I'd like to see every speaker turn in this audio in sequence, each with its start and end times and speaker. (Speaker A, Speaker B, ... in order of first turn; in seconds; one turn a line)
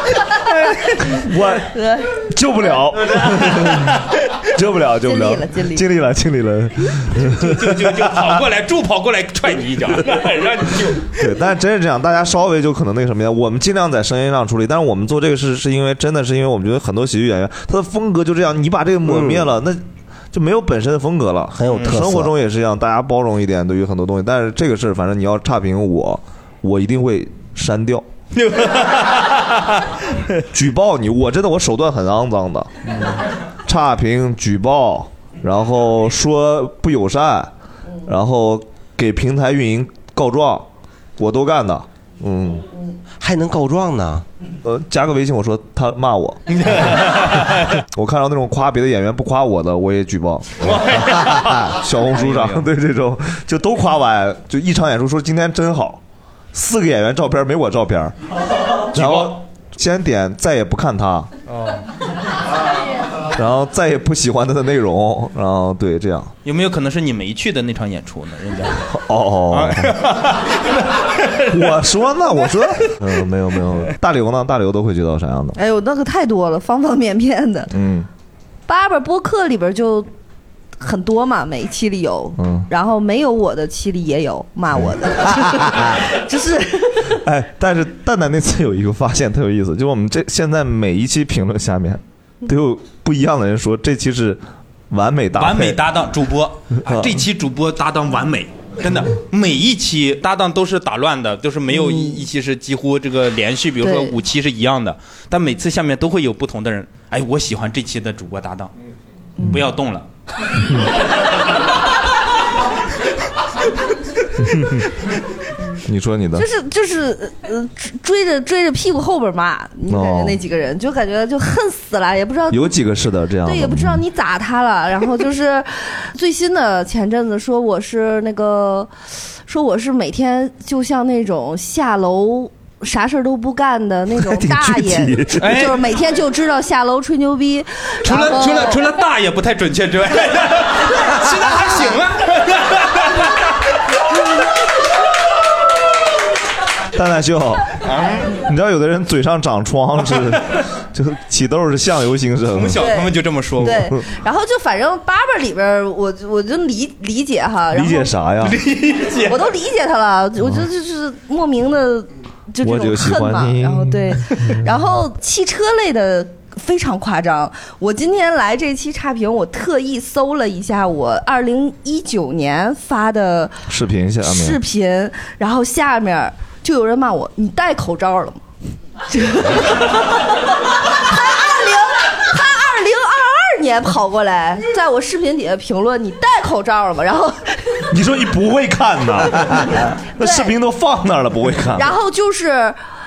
Speaker A: 1.1-8.1
Speaker B: 1.6-2.1
Speaker B: 5.0-5.8
Speaker C: 7.3-11.2
Speaker A: 11.2-28.1
Speaker D: 19.1-19.4
Speaker D: 21.6-22.3
Speaker C: 28.4-29.4
Speaker A: 30.5-32.7
Speaker A: 33.7-37.5
Speaker A: 38.1-42.7
Speaker D: 43.2-44.2
Speaker A: 44.6-47.0
Speaker C: 46.5-47.7
Speaker A: 47.7-56.0
Speaker C: 50.7-51.4
Speaker D: 51.0-51.7
Speaker C: 52.2-52.6
Speaker A: 56.5-58.1
Speaker C: 58.9-59.4
Speaker A: 58.9-61.3
Speaker C: 61.5-61.8
Speaker A: 63.3-66.3
Speaker C: 66.5-68.9
Speaker A: 68.9-69.9
Speaker C: 69.5-70.5
Speaker A: 71.5-75.6
Speaker B: 75.6-77.7
Speaker A: 77.7-78.1
Speaker B: 78.7-80.1
Speaker B: 80.8-87.2
Speaker A: 82.4-82.7
Speaker A: 87.2-95.8
Speaker C: 95.4-108.7
Speaker A: 96.8-97.2
Speaker B: 101.8-102.1
Speaker B: 103.8-104.2
Speaker C: 109.4-110.1
Speaker A: 115.8-116.5
Speaker B: 116.3-122.7
Speaker A: 119.9-120.4
Speaker A: 122.5-124.0
Speaker B: 123.5-128.9
Speaker B: 129.5-138.9
Speaker A: 134.2-135.6
Speaker C: 135.4-135.8
Speaker C: 138.0-143.2
Speaker A: 146.9-147.7
Speaker C: 147.8-148.3
Speaker A: 148.4-152.8
Speaker C: 152.5-153.9
Speaker B: 152.8-158.1
Speaker A: 157.7-158.6
Speaker C: 158.4-159.4
Speaker B: 159.3-173.6
Speaker A: 162.6-164.6
Speaker A: 173.7-174.6
Speaker B: 174.2-178.4
Speaker B: 179.1-187.8
Speaker A: 187.9-191.9
Speaker B: 190.2-190.5
Speaker B: 191.8-192.8